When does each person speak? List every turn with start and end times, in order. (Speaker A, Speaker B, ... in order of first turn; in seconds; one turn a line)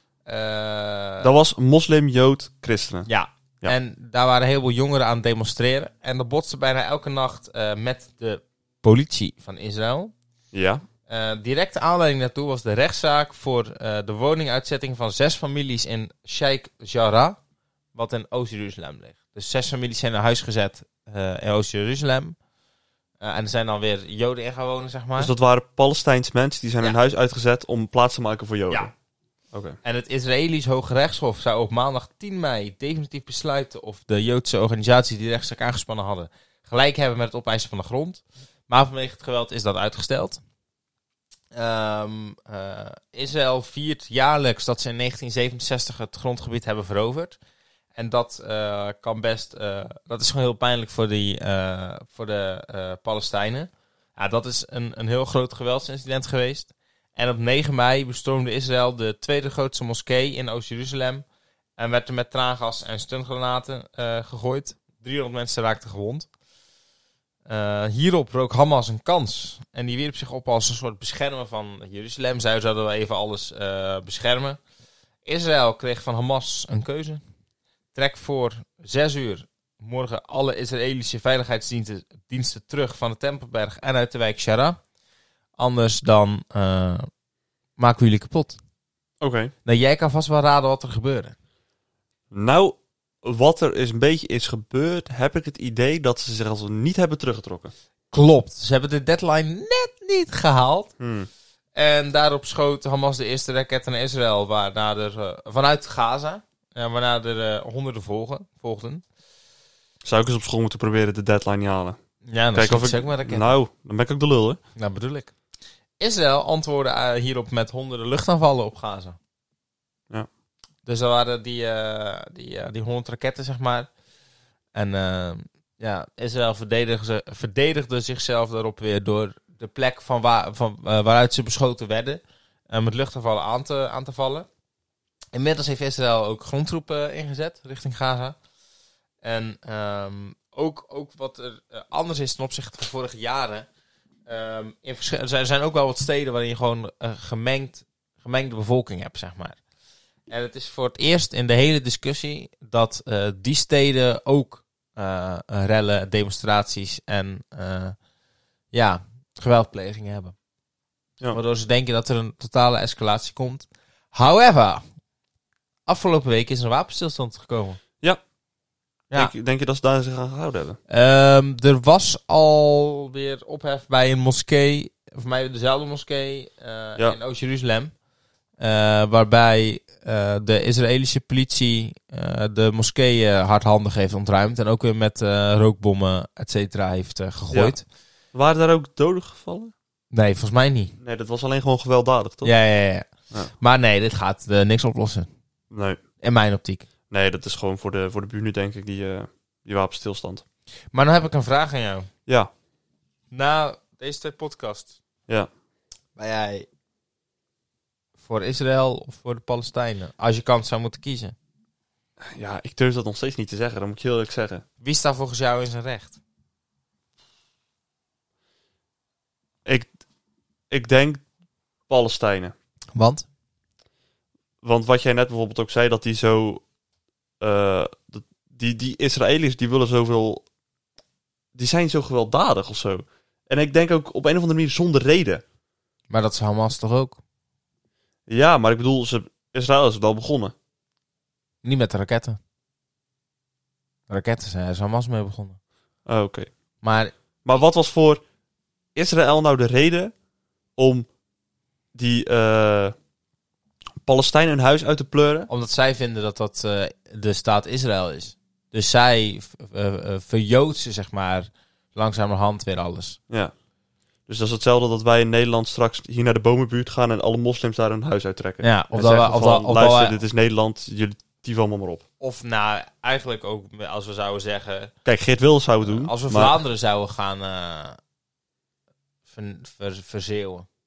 Speaker A: 0.2-1.3
Speaker B: 1.2-3.1
Speaker A: 3.1-10.1
Speaker B: 10.5-10.8
Speaker A: 11.1-17.4
Speaker A: 17.9-22.4
Speaker A: 23.2-25.3
Speaker B: 25.2-28.9
Speaker B: 29.5-29.8
Speaker A: 29.8-40.4
Speaker A: 41.5-47.4
Speaker A: 47.9-61.2
Speaker A: 61.8-66.3
Speaker A: 67.5-74.6
Speaker A: 75.2-77.2
Speaker A: 77.9-84.8
Speaker A: 85.6-87.1
Speaker A: 87.8-88.6
Speaker B: 89.2-89.5
Speaker A: 89.6-91.3
Speaker B: 92.3-97.7
Speaker A: 98.1-100.9
Speaker B: 101.0-101.3
Speaker A: 101.8-109.0
Speaker B: 110.0-112.0
Speaker A: 112.2-113.5
Speaker B: 112.5-114.6
Speaker A: 114.8-115.3
Speaker A: 116.0-119.2
Speaker A: 120.8-123.9
Speaker A: 124.7-134.5
Speaker A: 135.3-138.4
Speaker A: 139.2-143.7
Speaker A: 144.3-149.6
Speaker A: 150.3-157.9
Speaker A: 158.7-160.3
Speaker A: 161.3-164.8
Speaker A: 165.9-167.8
Speaker B: 169.1-170.8
Speaker A: 170.9-177.9
Speaker A: 178.6-187.8
Speaker B: 187.5-187.8
Speaker B: 188.3-189.7
Speaker A: 190.1-190.9
Speaker B: 191.0-192.5
Speaker A: 192.4-195.3
Speaker B: 195.7-196.0
Speaker A: 196.2-196.9
Speaker B: 197.1-200.4
Speaker A: 200.9-202.1
Speaker A: 203.3-204.9
Speaker A: 206.2-206.7
Speaker A: 208.2-211.3
Speaker B: 212.2-214.6
Speaker A: 214.8-216.2
Speaker B: 219.6-219.9
Speaker B: 220.7-221.2
Speaker B: 221.9-222.5
Speaker A: 222.9-223.2
Speaker B: 224.6-226.6
Speaker B: 227.4-230.4
Speaker B: 231.6-235.4
Speaker A: 236.1-237.2
Speaker B: 238.3-240.5
Speaker A: 241.6-242.4
Speaker A: 244.1-245.6
Speaker B: 246.1-246.5
Speaker A: 246.8-247.1
Speaker B: 247.4-248.2
Speaker B: 248.9-250.1
Speaker B: 250.8-251.1
Speaker B: 251.9-252.9
Speaker B: 254.1-255.5
Speaker A: 255.5-263.2
Speaker B: 264.3-272.0
Speaker A: 268.6-270.1
Speaker A: 272.2-274.9
Speaker B: 275.1-276.6
Speaker A: 275.8-278.0
Speaker A: 279.3-280.7